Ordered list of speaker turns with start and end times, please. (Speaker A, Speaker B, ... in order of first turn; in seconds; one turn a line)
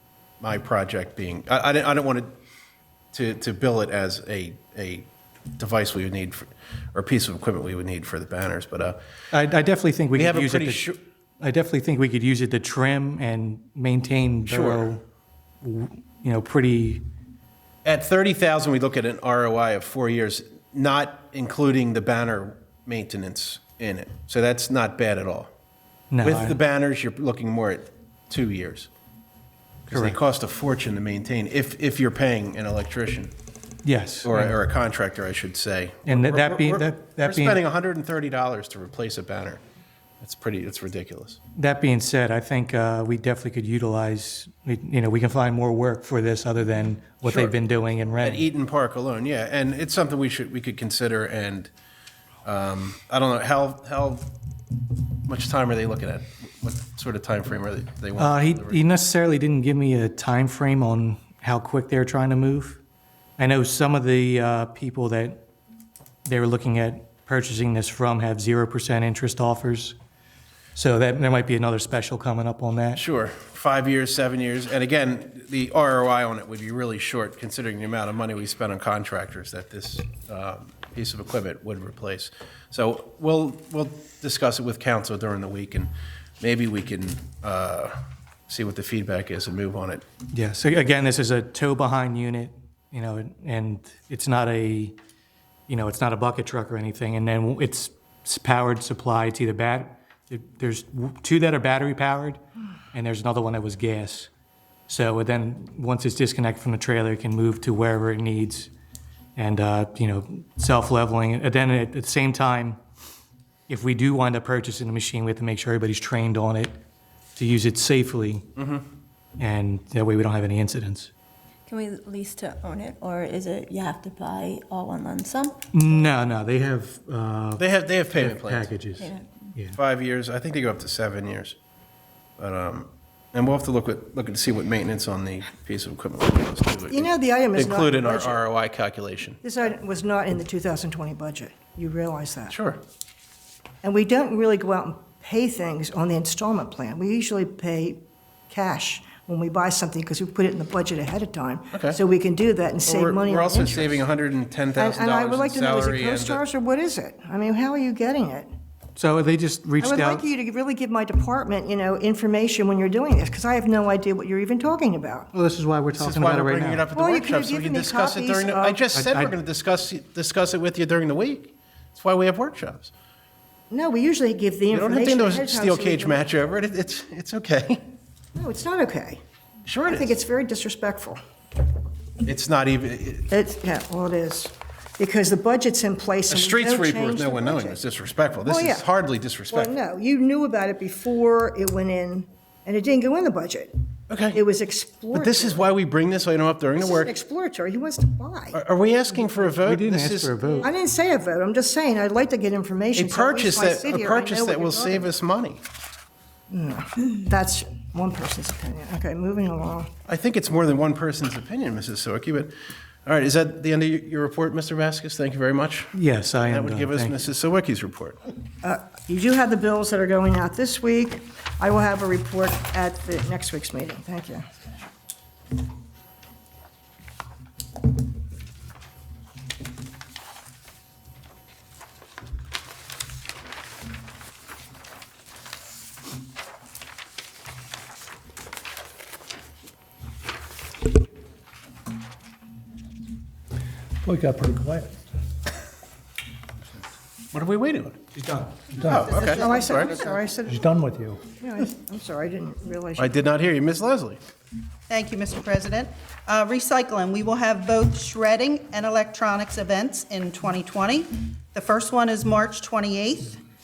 Speaker A: 0.4-2.3
Speaker A: 3.1-9.0
Speaker B: 9.3-15.0
Speaker A: 10.1-11.0
Speaker A: 14.5-14.9
Speaker B: 15.6-17.0
Speaker A: 17.9-25.5
Speaker B: 26.1-26.6
Speaker A: 26.2-28.9
Speaker A: 29.9-33.3
Speaker B: 29.9-30.2
Speaker B: 33.8-34.6
Speaker A: 34.2-39.6
Speaker B: 36.1-37.6
Speaker A: 40.2-41.4
Speaker B: 41.5-48.5
Speaker A: 47.2-47.6
Speaker A: 48.2-51.7
Speaker A: 52.5-54.3
Speaker A: 55.3-58.8
Speaker B: 58.2-62.8
Speaker B: 63.4-65.4
Speaker B: 66.2-70.0
Speaker B: 70.7-73.0
Speaker A: 73.0-88.0
Speaker A: 88.5-90.0
Speaker B: 90.3-95.0
Speaker B: 95.7-102.4
Speaker B: 102.9-104.3
Speaker B: 104.9-108.7
Speaker B: 109.4-112.8
Speaker B: 113.7-116.7
Speaker B: 117.4-118.5
Speaker A: 118.6-118.8
Speaker B: 119.4-121.1
Speaker C: 121.7-125.5
Speaker B: 125.7-129.8
Speaker A: 127.6-128.8
Speaker A: 129.7-131.6
Speaker A: 132.4-139.4
Speaker D: 136.9-138.4
Speaker D: 139.7-142.5
Speaker A: 142.5-142.8
Speaker D: 143.8-153.9
Speaker A: 151.7-152.0
Speaker A: 152.8-156.4
Speaker D: 154.8-158.5
Speaker B: 159.0-160.2
Speaker D: 159.8-165.2
Speaker B: 165.3-166.9
Speaker A: 165.9-172.9
Speaker D: 166.9-168.8
Speaker B: 168.9-169.3
Speaker D: 173.7-176.2
Speaker A: 174.7-177.8
Speaker D: 178.4-179.2
Speaker A: 179.7-180.2
Speaker D: 179.9-181.2
Speaker A: 182.2-183.3
Speaker D: 183.3-187.8
Speaker A: 186.3-189.8
Speaker D: 188.5-188.8
Speaker D: 189.5-193.7
Speaker A: 194.1-194.4
Speaker D: 194.3-195.6
Speaker A: 195.1-197.2
Speaker D: 196.9-198.6
Speaker A: 198.5-200.4
Speaker B: 199.5-200.7
Speaker D: 200.6-205.1
Speaker A: 202.9-205.6
Speaker D: 206.5-209.9
Speaker A: 210.1-212.6
Speaker A: 213.1-215.9
Speaker B: 215.9-217.2
Speaker A: 216.4-218.2
Speaker D: 218.6-224.4
Speaker E: 244.0-244.9
Speaker A: 247.3-248.1
Speaker A: 248.8-250.1
Speaker E: 248.8-251.9
Speaker F: 248.9-250.2
Speaker D: 249.1-250.6
Speaker D: 251.4-253.2
Speaker A: 253.0-254.2
Speaker F: 254.9-263.4